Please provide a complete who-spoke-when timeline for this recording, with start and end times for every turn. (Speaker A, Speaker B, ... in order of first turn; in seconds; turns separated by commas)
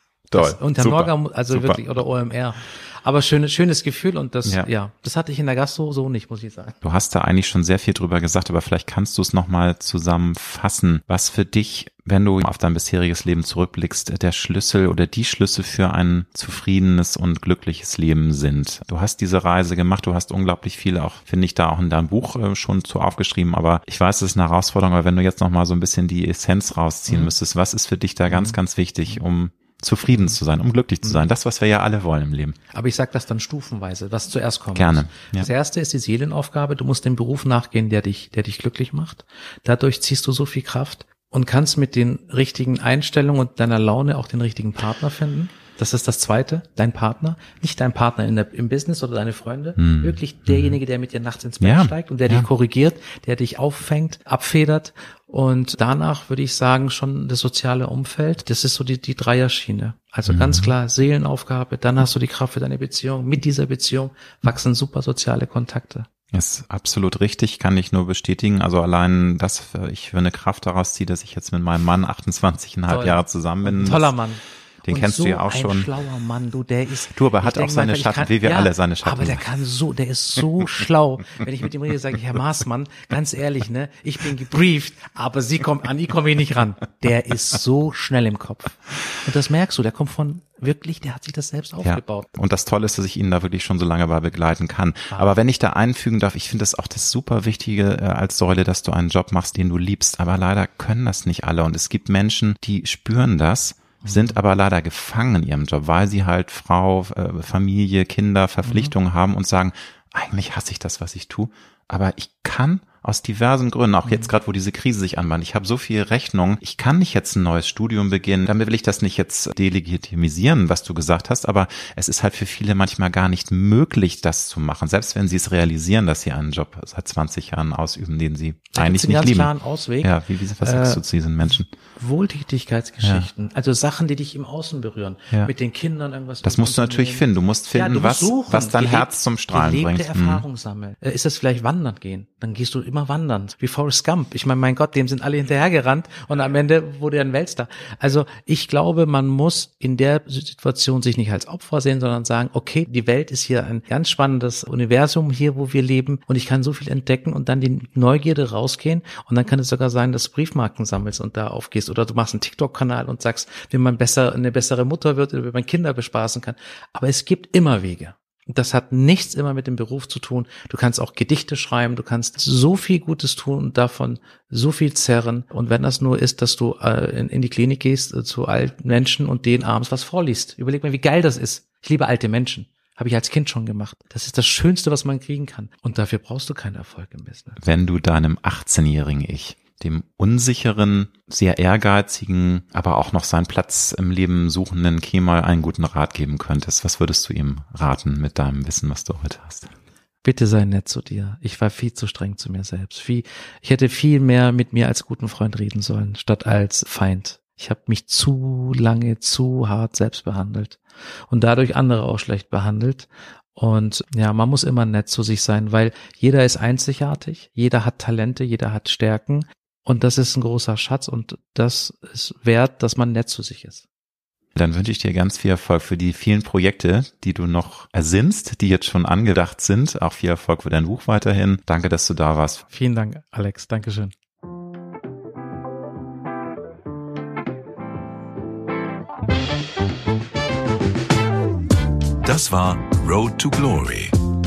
Speaker A: 0.3-1.8, Speaker B: 0.3-6.8, Speaker A: 6.8-32.6, Speaker B: 27.1-27.3, Speaker B: 28.3-28.6, Speaker B: 32.7-66.1, Speaker A: 34.8-35.5, Speaker A: 49.8-50.8, Speaker A: 51.6-52.5, Speaker A: 60.3-60.7, Speaker A: 66.3-74.2, Speaker B: 72.9-92.3, Speaker A: 74.8-75.9, Speaker A: 77.1-79.4, Speaker A: 91.8-129.5, Speaker B: 104.0-104.3, Speaker B: 108.7-108.9, Speaker B: 114.0-114.3, Speaker B: 128.8-131.0, Speaker A: 130.0-131.7, Speaker B: 132.0-187.6, Speaker A: 133.0-133.3, Speaker A: 136.4-140.4, Speaker A: 187.6-199.7, Speaker B: 200.2-223.8, Speaker A: 224.6-232.7, Speaker B: 232.7-234.1, Speaker C: 242.2-244.2